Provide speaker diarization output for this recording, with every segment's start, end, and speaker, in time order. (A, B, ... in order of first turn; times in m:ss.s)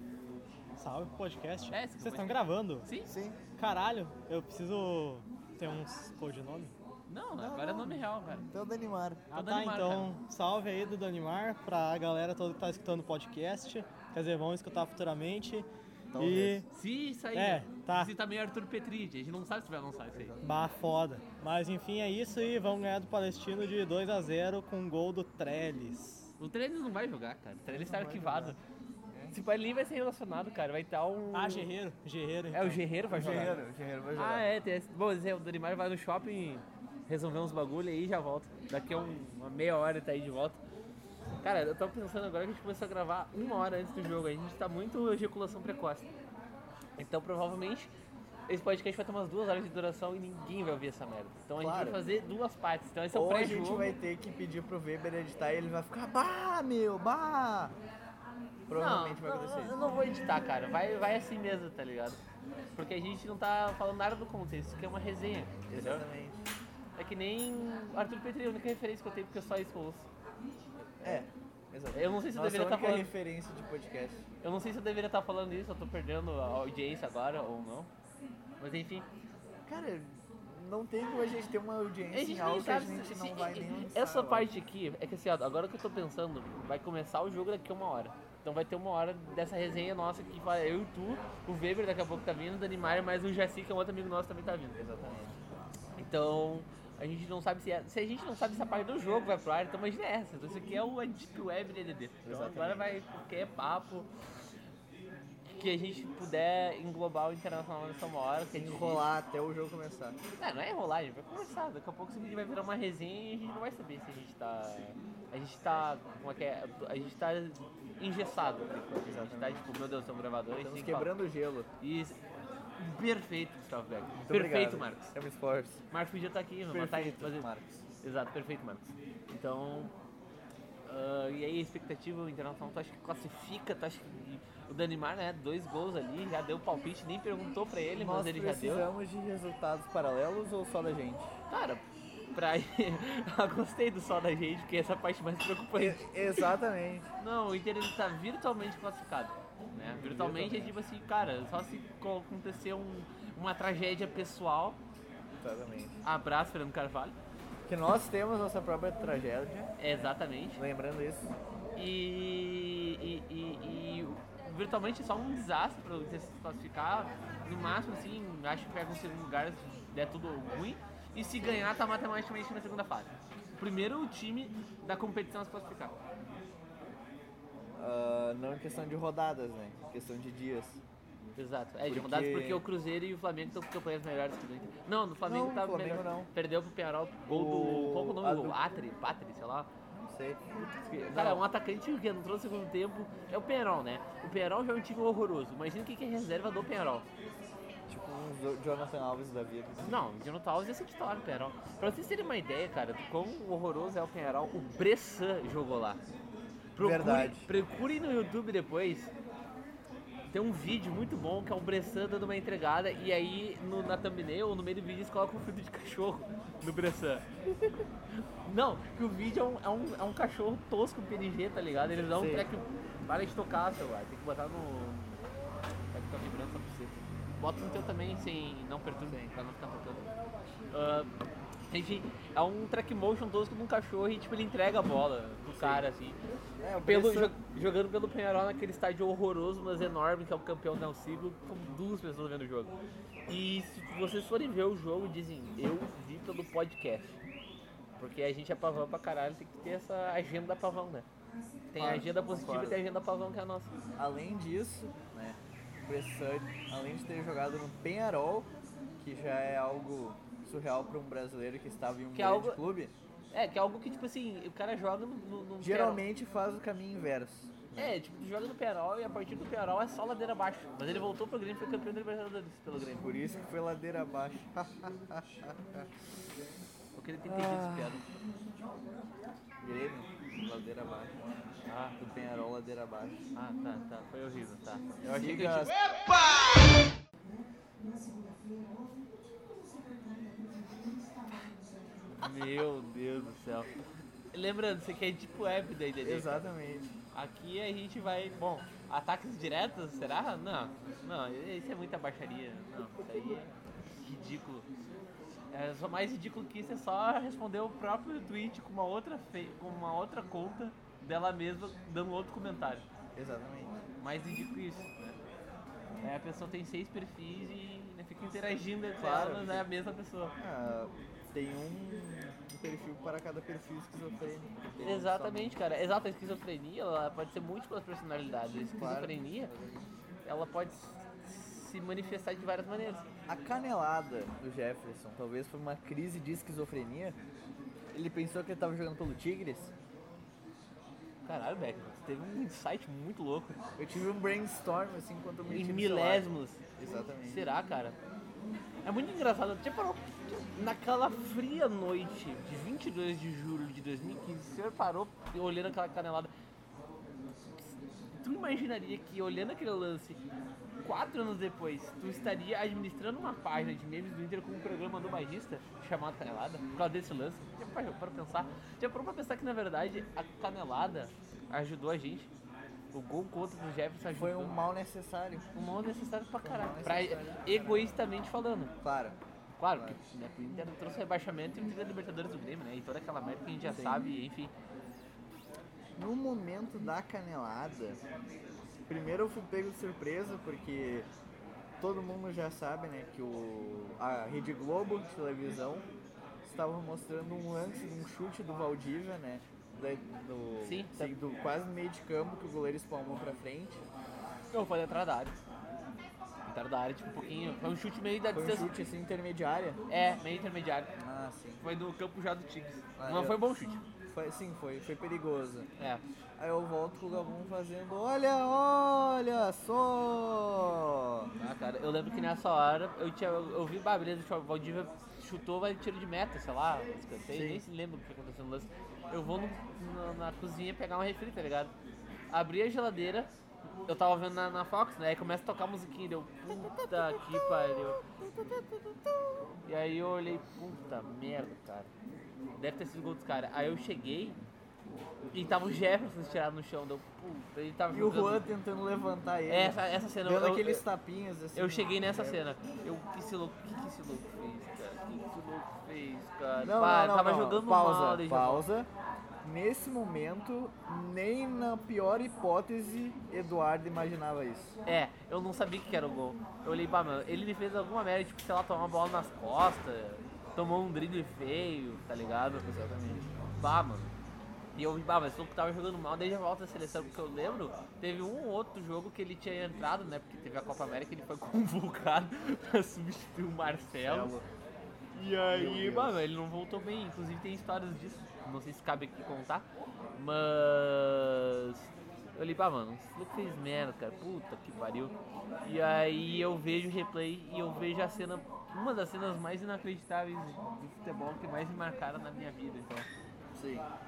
0:00.8-0:02.9 A
0:01.7-0:03.1 B
0:03.1-0:03.4 C
0:03.6-0:06.7 A
0:07.1-0:08.5 B
0:07.4-0:09.3 C
0:09.3-0:16.7 A
0:09.3-0:10.2 B
0:16.1-0:16.6 C
0:16.7-0:20.4 B
0:17.3-0:18.1 A
0:20.1-0:20.5 C
0:20.4-0:26.3 A
0:26.4-0:28.6 B
0:27.7-0:28.6 C
0:29.3-0:31.7 B
0:31.3-0:33.5 A
0:32.5-0:33.6 B
0:33.1-0:34.5 C
0:34.1-0:40.6 B
0:41.4-0:46.1 B
0:47.0-0:47.9 B
0:48.5-0:53.9 B
0:51.6-0:52.0 C
0:53.1-0:57.8 C
0:58.7-0:59.8 C
0:58.7-1:02.2 B
1:02.8-1:06.1 B
1:05.7-1:06.4 C
1:07.0-1:10.1 B
1:11.0-1:11.3 B
1:11.0-1:14.2 C
1:11.9-1:13.1 B
1:14.4-1:17.9 B
1:18.6-1:19.1 B
1:19.7-1:24.5 C
1:22.1-1:34.8 B
1:34.8-1:35.4 C
1:36.0-1:44.1 B
1:42.2-1:42.9 C
1:45.5-1:49.1 B
1:48.5-1:50.2 C
1:50.4-2:01.1 B
1:59.0-1:59.6 C
2:00.6-2:01.7 C
2:01.8-2:02.2 B
2:02.8-2:05.1 B
2:04.2-2:05.8 C
2:05.9-2:07.5 B
2:06.7-2:07.8 C
2:08.0-2:09.9 B
2:10.9-2:18.9 B
2:18.0-2:21.3 C
2:21.5-2:26.5 B
2:25.8-2:27.1 C
2:27.2-2:34.8 B
2:29.9-2:30.8 C
2:35.4-2:36.0 C
2:36.0-2:37.2 B
2:37.7-2:39.7 C
2:39.8-2:40.6 B
2:40.6-2:41.3 C
2:41.8-2:56.0 B
2:57.8-3:00.8 C
3:01.4-3:09.7 B
3:01.9-3:02.6 C
3:05.2-3:06.3 C
3:07.3-3:08.6 C
3:09.9-3:11.4 C
3:10.6-3:17.1 B
3:17.9-3:20.0 C
3:19.8-3:26.0 B
3:26.8-3:29.1 B
3:26.8-3:27.5 C
3:30.3-3:37.8 B
3:38.4-3:45.2 B
3:42.1-3:42.5 C
3:45.9-3:50.1 B
3:49.1-3:49.3 C
3:50.7-3:51.1 B
3:51.7-3:56.2 B
3:55.6-3:55.8 C
3:56.6-3:57.4 C
3:56.8-4:02.7 B
4:03.3-4:07.2 B
4:08.0-4:11.1 B
4:11.7-4:13.7 B
4:11.8-4:12.8 C
4:14.0-4:22.9 C
4:22.2-4:22.6 B
4:23.3-4:26.0 B
4:25.6-4:28.0 C
4:27.8-4:33.1 B
4:33.0-4:35.9 C
4:37.0-4:38.0 B
4:37.3-4:38.0 C
4:39.6-4:41.4 C
4:41.7-4:42.0 B
4:42.0-4:43.2 C
4:43.4-4:45.8 B
4:45.0-4:45.8 C
4:52.2-4:53.7 B
4:54.3-4:56.5 B
4:56.0-4:56.9 C
4:57.1-5:04.7 B
5:05.5-5:12.8 B
5:13.2-5:13.8 C
5:14.0-5:15.2 B
5:16.0-5:20.3 B
5:19.0-5:19.7 C
5:20.4-5:25.6 C
5:24.8-5:29.5 B
5:28.8-5:29.8 C
5:30.2-5:33.0 B
5:33.3-5:37.2 C
5:37.9-5:39.7 C
5:41.2-5:43.6 B
5:43.8-5:47.4 C
5:45.5-5:46.6 B
5:47.3-5:48.0 B
5:48.8-5:56.3 B
5:58.2-6:00.2 B
6:00.8-6:12.3 B
6:12.9-6:14.6 B
6:14.2-6:15.5 C
6:15.6-6:18.7 B
6:16.4-6:17.9 C
6:18.8-6:19.2 C
6:19.6-6:24.5 B
6:23.7-6:24.0 C
6:26.0-6:28.0 C
6:28.9-6:31.1 C
6:31.8-6:35.9 C
6:36.4-6:43.8 C
6:40.6-6:41.2 B
6:44.5-6:45.3 B
6:46.5-6:48.7 B
6:48.3-6:49.8 C
6:49.9-6:50.9 B
6:51.0-6:51.6 C
6:51.6-6:53.8 B
6:53.0-6:53.4 C
6:54.1-6:55.7 C
6:55.8-6:56.0 B
6:56.4-7:01.3 C
7:01.4-7:11.7 B
7:07.3-7:07.6 C
7:12.3-7:13.3 B
7:13.9-7:18.0 B
7:16.5-7:19.4 C
7:19.6-7:21.9 B
7:22.6-7:24.4 B
7:25.3-7:28.5 B
7:27.9-7:32.4 C
7:29.5-7:30.9 B
7:31.5-7:38.7 B
7:36.6-7:38.9 C
7:39.4-7:44.8 C
7:44.9-7:52.6 B
7:52.6-7:53.3 C
7:53.6-7:54.1 B
7:54.8-8:04.4 B
8:04.0-8:04.5 C
8:05.2-8:23.1 B
8:05.5-8:06.2 C
8:23.5-8:23.9 C